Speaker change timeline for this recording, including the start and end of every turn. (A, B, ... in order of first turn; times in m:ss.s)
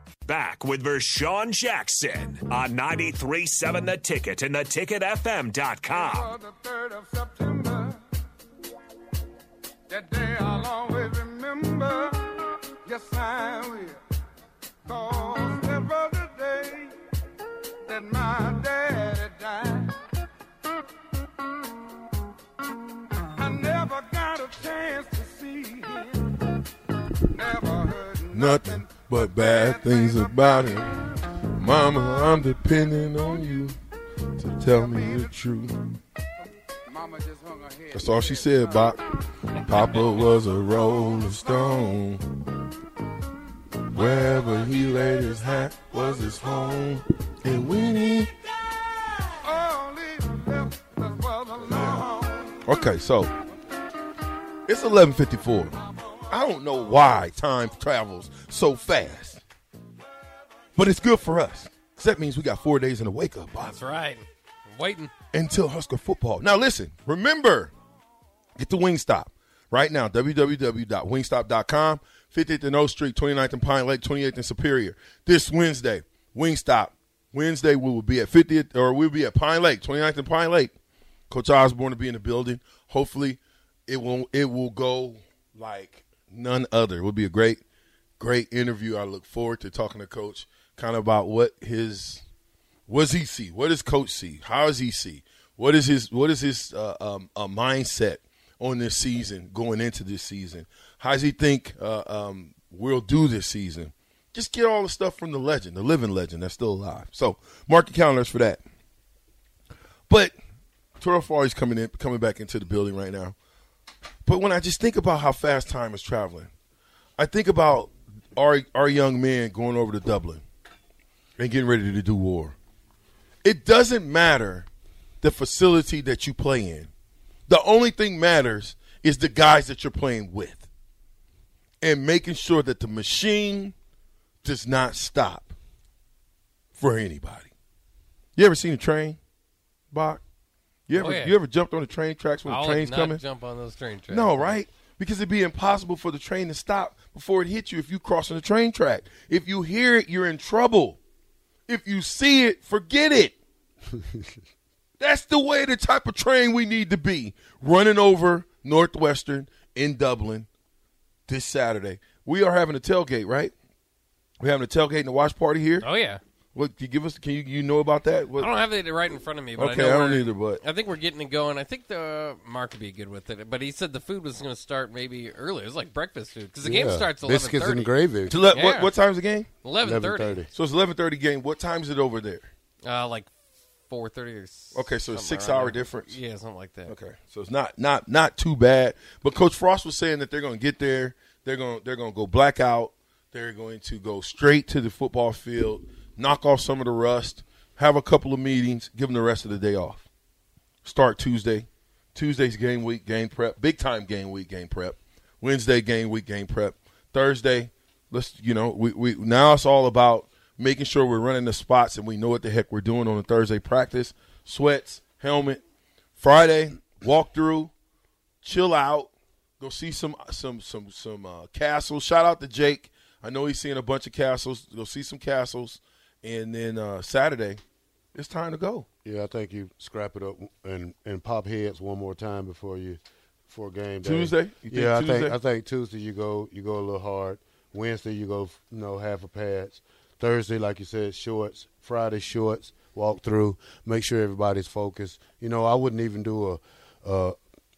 0:00.3-0:06.3 A
0:06.4-0:08.0 B
0:09.9-0:14.0 B
0:14.9-0:17.0 B
0:17.9-0:19.9 B
0:23.4-0:26.2 B
0:27.4-0:28.2 B
0:28.3-0:31.1 C
0:31.6-0:33.8 C
0:34.4-0:35.8 C
0:37.0-0:37.8 B
0:37.9-0:39.0 C
0:39.6-0:42.2 C
0:43.9-0:48.3 C
0:49.6-0:52.5 B
0:52.6-0:53.3 C
0:54.7-0:55.7 C
0:56.3-0:59.4 C
1:00.8-1:03.8 C
1:03.6-1:05.1 D
1:05.3-1:07.7 C
1:08.6-1:20.7 C
1:21.3-1:27.6 C
1:28.2-1:32.2 C
1:32.9-1:48.6 C
1:50.1-1:50.4 C
1:51.0-1:53.3 C
1:54.2-1:56.5 C
1:57.2-2:00.4 C
2:01.4-2:02.6 C
2:03.4-2:04.7 C
2:05.2-2:06.9 C
2:07.5-2:10.6 C
2:11.8-2:13.7 C
2:14.4-2:15.5 C
2:16.8-2:17.5 C
2:18.4-2:19.2 C
2:19.9-2:20.2 C
2:20.9-2:23.2 C
2:21.0-2:21.4 D
2:22.5-2:24.6 D
2:24.1-2:31.0 C
2:31.7-2:33.3 C
2:34.0-2:34.2 E
2:35.0-2:40.5 C
2:41.3-2:43.5 C
2:44.4-2:45.8 C
2:45.8-2:46.2 D
2:46.5-2:48.5 C
2:48.4-2:57.9 D
2:49.6-2:50.6 C
2:56.6-2:58.4 E
2:58.3-2:59.5 C
2:58.5-2:58.9 D
2:59.6-3:00.4 D
2:59.8-3:00.5 E
3:00.5-3:02.5 C
3:02.8-3:03.3 D
3:03.9-3:06.9 D
3:04.7-3:06.2 C
3:06.9-3:20.0 C
3:20.8-3:35.6 C
3:36.2-3:37.7 C
3:38.4-3:47.6 C
3:48.1-3:48.8 C
3:49.0-4:07.4 E
3:54.0-3:55.4 C